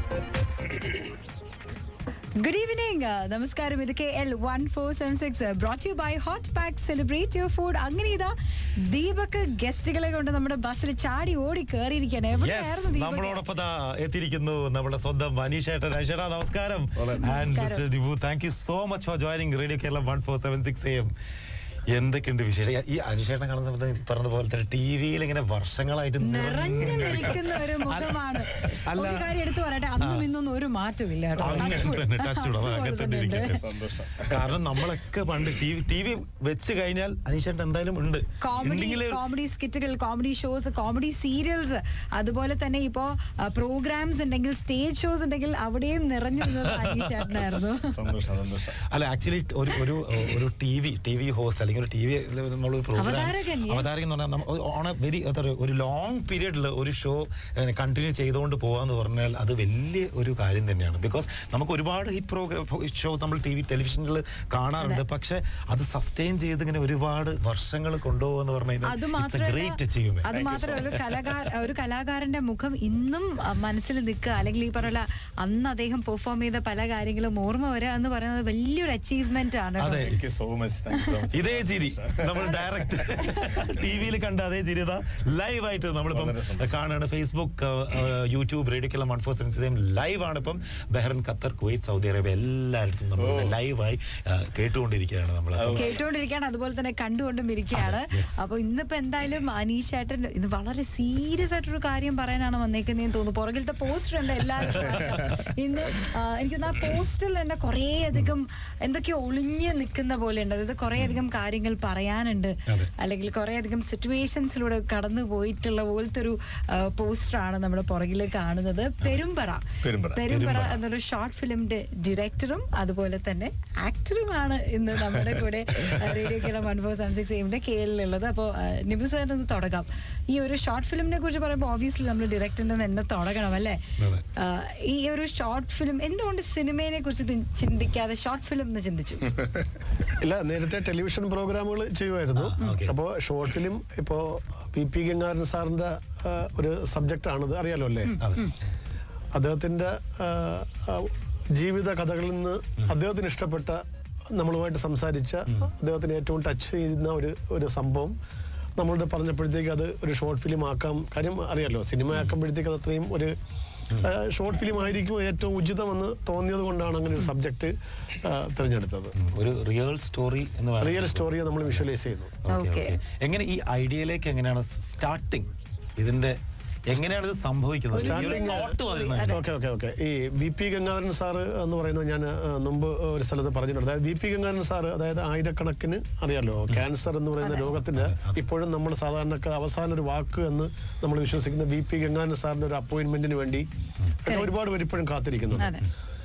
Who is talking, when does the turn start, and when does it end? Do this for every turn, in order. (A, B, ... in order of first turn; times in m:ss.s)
0:02.4-0:13.4 A
0:12.4-0:21.1 B
0:17.0-0:17.2 C
0:17.2-0:17.8 A
0:21.9-0:29.3 B
0:26.2-0:33.6 A
0:30.0-0:30.3 B
0:31.4-0:33.6 B
0:31.4-0:31.9 C
0:33.4-0:34.5 C
0:34.3-0:39.2 B
0:38.4-0:48.0 A
0:46.7-0:47.2 B
0:47.9-0:48.8 C
0:48.9-1:11.0 B
0:53.0-0:54.0 A
1:08.8-1:20.1 A
1:10.3-1:11.0 C
1:19.8-1:20.2 B
1:20.0-1:23.8 C
1:21.3-1:35.9 B
1:26.1-1:26.7 C
1:33.2-1:33.6 C
1:35.6-1:36.0 C
1:35.7-2:13.8 A
1:37.7-1:38.4 B
1:44.8-1:45.3 C
1:44.9-1:45.2 B
1:59.8-2:00.2 C
2:00.3-2:00.8 B
2:14.0-2:14.2 B
2:14.4-2:19.3 A
2:20.2-2:28.1 D
2:22.4-2:23.0 B
2:28.1-2:28.5 A
2:28.2-2:28.5 B
2:29.3-2:33.8 D
2:34.3-2:38.1 D
2:38.8-2:43.3 D
2:42.1-2:42.4 B
2:44.0-2:49.1 D
2:49.2-2:51.9 B
2:50.8-2:52.3 D
2:52.4-2:59.5 B
2:52.5-2:53.0 A
2:57.9-2:59.4 A
2:58.0-2:58.8 D
2:59.3-3:13.7 D
3:07.4-3:07.7 A
3:07.9-3:08.4 B
3:14.2-3:15.7 D
3:14.3-3:14.5 A
3:15.6-3:15.8 A